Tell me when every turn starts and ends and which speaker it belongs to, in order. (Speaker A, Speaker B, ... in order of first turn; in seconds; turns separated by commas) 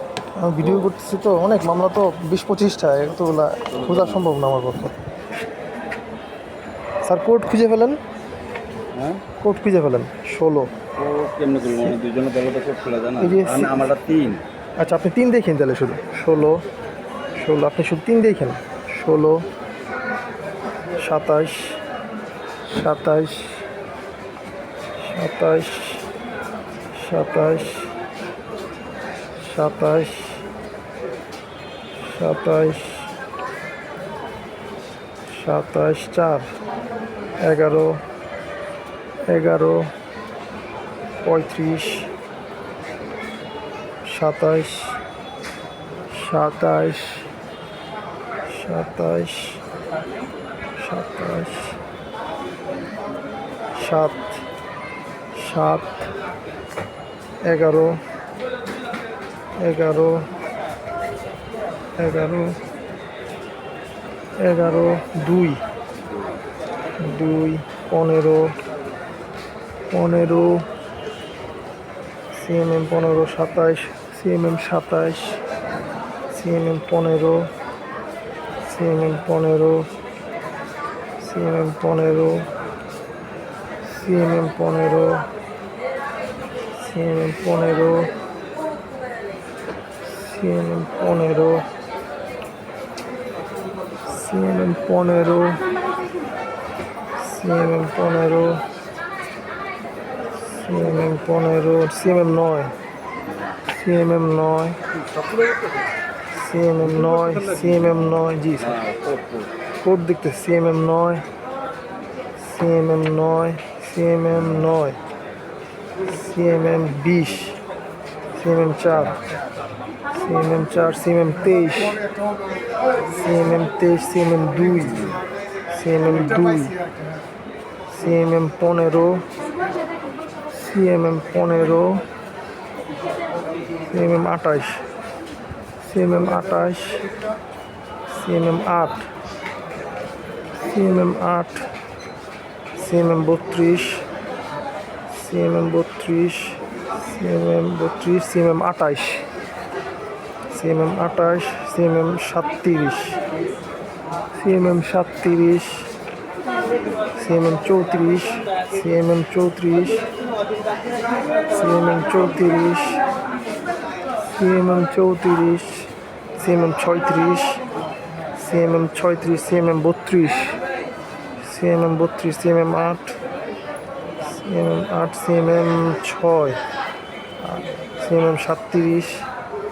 Speaker A: 0.4-5.0, Speaker B: 0.6-0.9, Speaker B: 3.7-4.3, Speaker A: 7.0-8.0, Speaker B: 8.9-9.2, Speaker A: 9.4-10.7, Speaker B: 11.0-14.4, Speaker A: 13.2-13.8, Speaker A: 14.8-16.6, Speaker A: 17.4-19.4, Speaker A: 21.0-21.8, Speaker A: 22.7-23.6, Speaker A: 25.0-26.1, Speaker A: 26.9-27.9, Speaker A: 29.4-30.4, Speaker A: 32.0-33.1, Speaker A: 35.3-36.5, Speaker A: 37.4-38.0, Speaker A: 39.3-39.9, Speaker A: 41.2-42.1, Speaker A: 44.1-45.0, Speaker A: 46.1-47.3, Speaker A: 48.4-49.6, Speaker A: 50.8-51.8, Speaker A: 53.8-54.4, Speaker A: 55.4-56.1, Speaker A: 57.5-58.0, Speaker A: 59.6-60.3, Speaker A: 62.0-62.6, Speaker A: 64.4-65.6, Speaker B: 66.0-66.4, Speaker A: 67.0-68.6, Speaker A: 69.9-70.7, Speaker A: 72.3-75.4, Speaker A: 76.3-77.5, Speaker A: 78.6-79.9, Speaker A: 81.2-82.5, Speaker A: 83.8-85.3, Speaker A: 86.7-88.1, Speaker A: 90.0-91.7, Speaker A: 94.1-95.7, Speaker A: 97.2-98.7, Speaker A: 100.4-102.7, Speaker B: 103.3-103.6, Speaker A: 103.7-104.8, Speaker B: 105.1-105.6, Speaker A: 106.3-108.8, Speaker B: 108.6-109.5, Speaker A: 109.8-111.3, Speaker A: 112.4-115.0, Speaker A: 116.0-117.6, Speaker A: 118.3-119.2, Speaker A: 120.1-122.0, Speaker A: 123.0-125.1, Speaker A: 125.7-126.8, Speaker A: 127.9-129.3, Speaker A: 130.5-132.1, Speaker A: 133.9-134.8, Speaker A: 135.8-137.1, Speaker A: 138.1-139.1, Speaker A: 140.7-141.7, Speaker A: 142.8-144.1, Speaker A: 145.1-149.2, Speaker A: 150.5-153.2, Speaker A: 154.4-155.9, Speaker A: 157.2-160.1, Speaker A: 161.5-163.0, Speaker A: 164.3-167.6, Speaker A: 168.4-170.6, Speaker A: 171.4-173.2, Speaker A: 174.2-176.6, Speaker A: 177.4-179.2